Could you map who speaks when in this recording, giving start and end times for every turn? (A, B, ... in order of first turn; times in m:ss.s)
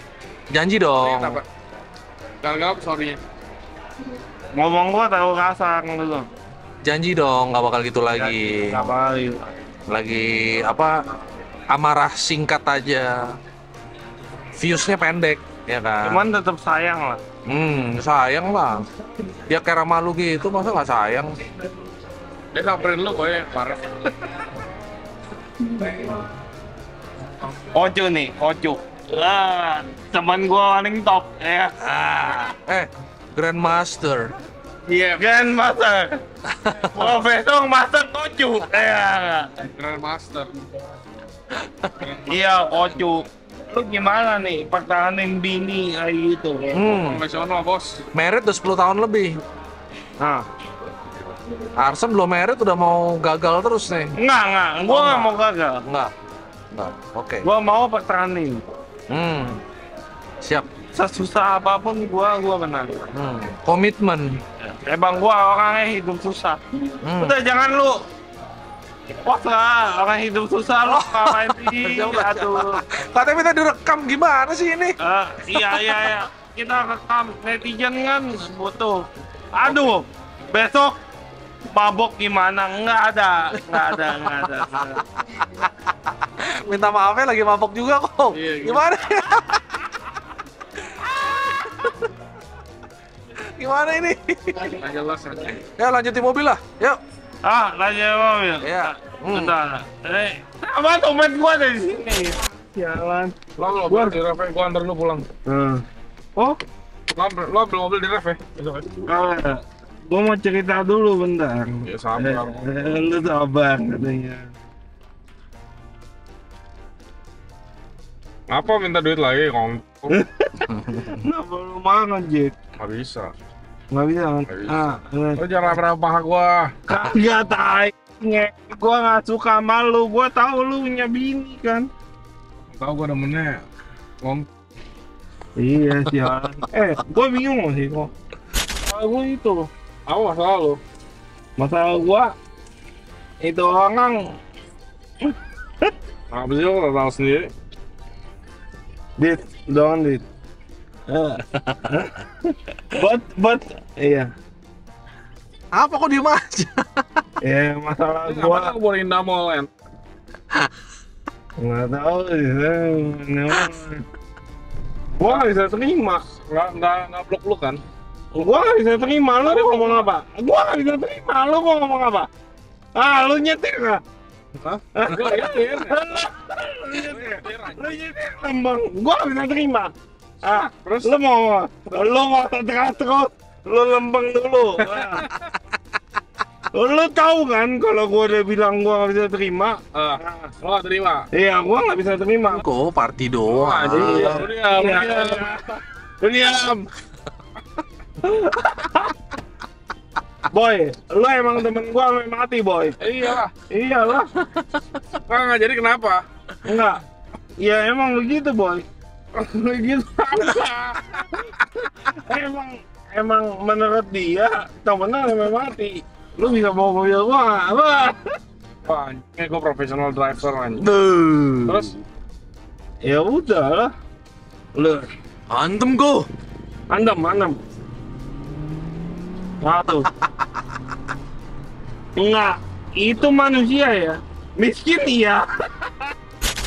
0:00.5-0:01.4 A
0:01.0-0:01.4 B
0:02.4-0:03.2 B
0:04.6-0:06.3 C
0:06.8-0:08.9 A
0:08.1-0:09.5 C
0:09.9-0:11.0 A
0:11.7-0:13.4 A
0:14.6-0:16.2 A
0:16.0-0:17.2 C
0:17.4-0:18.9 A
0:19.5-0:21.3 A
0:22.5-0:24.3 B
0:27.7-0:31.7 C
0:31.8-0:34.3 A
0:34.9-0:35.2 B
0:35.2-0:36.2 C
0:36.5-0:36.9 A
0:37.0-0:39.6 C
0:39.6-0:40.5 B
0:41.9-0:42.9 B
0:42.3-0:46.8 C
0:46.7-0:47.2 A
0:46.9-0:48.0 B
0:48.1-0:49.4 A
0:50.2-0:50.4 C
0:51.8-0:54.2 A
0:54.2-0:55.8 C
0:54.9-0:56.1 A
0:56.7-0:57.5 A
0:57.4-0:58.6 C
0:59.1-0:59.6 A
1:00.4-1:00.7 A
1:00.9-1:03.0 C
1:03.1-1:04.4 A
1:04.7-1:06.6 C
1:07.0-1:07.4 A
1:07.1-1:08.0 C
1:09.2-1:12.8 C
1:10.8-1:15.0 A
1:15.0-1:21.0 C
1:15.5-1:16.1 A
1:21.7-1:25.0 C
1:23.7-1:25.7 A
1:26.4-1:29.8 A
1:28.3-1:28.8 B
1:30.8-1:32.0 A
1:33.4-1:34.8 A
1:34.8-1:35.6 B
1:35.8-1:37.0 A
1:37.4-1:44.2 C
1:38.6-1:39.5 A
1:43.6-1:45.3 B
1:45.4-1:45.8 C
1:47.1-1:48.8 B
1:49.0-1:54.4 C
1:51.8-1:53.0 B
1:58.5-2:00.2 B
2:00.1-2:02.5 C
2:00.7-2:01.2 A
2:02.8-2:03.3 B
2:03.9-2:05.4 C
2:04.5-2:06.8 B
2:06.9-2:11.9 C
2:12.7-2:13.6 B
2:15.6-2:18.1 C
2:18.8-2:19.7 C
2:20.1-2:20.8 B
2:21.6-2:22.3 C
2:23.4-2:24.2 C
2:26.3-2:27.5 B
2:29.2-2:30.2 C
2:31.1-2:34.3 C
2:35.7-2:37.2 A
2:37.4-2:38.7 C
2:38.2-2:39.7 B
2:41.6-2:44.0 C
2:45.2-2:46.2 C
2:46.3-2:47.8 B
2:48.3-2:52.3 C
2:49.4-2:50.1 B
2:52.9-2:54.0 C
2:54.6-2:56.2 B
2:54.9-3:05.2 C
2:56.9-2:57.9 B
3:00.8-3:01.1 B
3:04.9-3:05.2 B
3:06.7-3:10.5 C
3:09.9-3:11.3 B
3:11.3-3:12.6 C
3:12.5-3:14.4 A
3:13.5-3:15.5 B
3:13.9-3:16.8 C
3:18.2-3:19.1 C
3:20.5-3:23.0 C
3:23.0-3:23.5 B
3:23.6-3:24.3 C
3:25.3-3:26.2 B
3:26.6-3:27.0 C
3:27.6-3:30.7 C
3:32.1-3:38.2 C
3:38.9-3:40.9 B
3:40.8-3:41.9 A
3:41.7-3:42.0 B
3:43.0-3:43.9 C
3:44.7-3:45.1 C
3:45.5-3:46.3 A
3:46.9-3:47.6 C
3:49.6-3:50.1 C
3:52.2-3:55.9 C